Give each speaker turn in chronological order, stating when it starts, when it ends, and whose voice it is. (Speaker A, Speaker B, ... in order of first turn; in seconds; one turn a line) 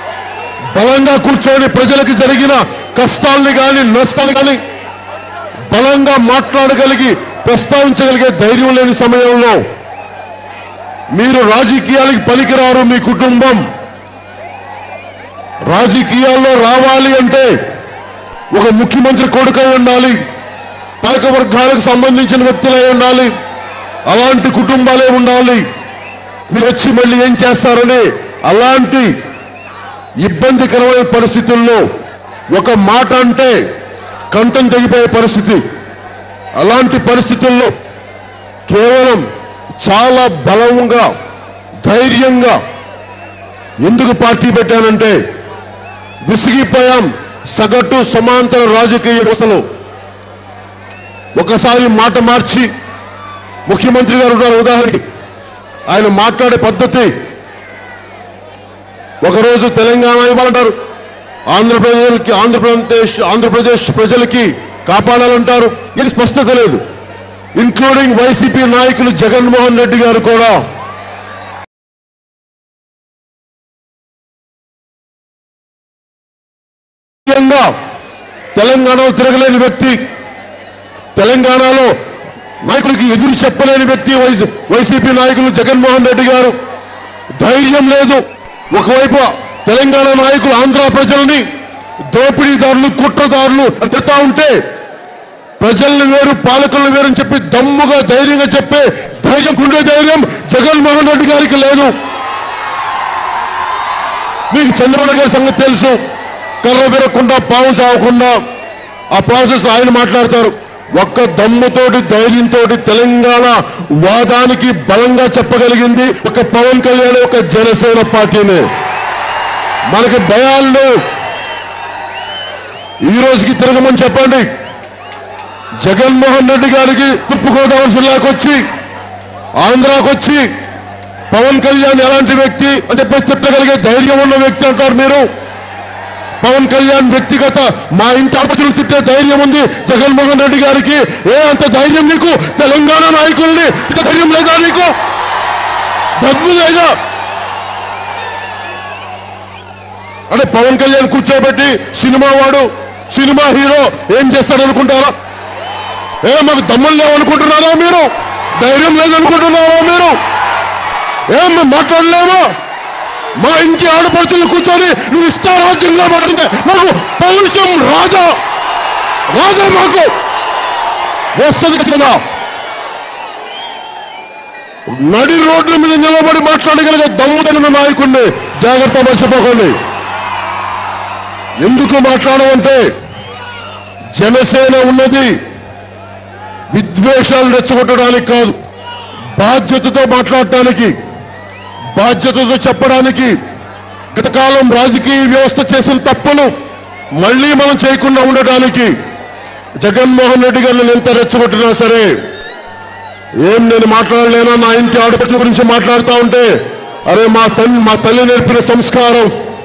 Speaker A: 0.7-4.6
Speaker A: 5.7-9.6
Speaker A: 11.1-13.6
Speaker A: 15.7-17.5
Speaker A: 18.5-20.2
Speaker A: 21.0-23.3
Speaker A: 24.1-25.6
Speaker A: 26.5-29.1
Speaker A: 30.2-31.8
Speaker A: 32.5-33.6
Speaker A: 34.3-35.6
Speaker A: 36.6-37.7
Speaker A: 38.7-39.2
Speaker A: 39.8-41.1
Speaker A: 41.8-42.6
Speaker A: 43.8-45.2
Speaker A: 46.2-49.6
Speaker A: 51.4-52.7
Speaker A: 53.7-55.0
Speaker A: 55.9-57.1
Speaker A: 59.2-60.7
Speaker A: 61.5-66.8
Speaker A: 67.5-70.6
Speaker A: 77.2-77.7
Speaker A: 78.5-80.0
Speaker A: 81.2-81.9
Speaker A: 82.6-86.5
Speaker A: 87.4-91.4
Speaker A: 92.1-94.6
Speaker A: 95.6-101.9
Speaker A: 104.5-106.0
Speaker A: 106.6-108.4
Speaker A: 109.1-118.6
Speaker A: 119.9-121.0
Speaker A: 123.0-124.5
Speaker A: 125.8-128.6
Speaker A: 129.6-130.5
Speaker A: 131.3-135.3
Speaker A: 136.4-144.9
Speaker A: 146.2-146.9
Speaker A: 150.3-155.1
Speaker A: 156.2-160.2
Speaker A: 161.3-162.5
Speaker A: 163.4-168.4
Speaker A: 169.3-170.1
Speaker A: 171.3-172.2
Speaker A: 174.9-179.8
Speaker A: 181.6-182.8
Speaker A: 184.1-185.3
Speaker A: 186.7-188.6
Speaker A: 189.3-190.9
Speaker A: 191.9-193.3
Speaker A: 194.1-196.5
Speaker A: 197.2-198.9
Speaker A: 199.8-202.1
Speaker A: 203.4-206.5
Speaker A: 207.1-209.3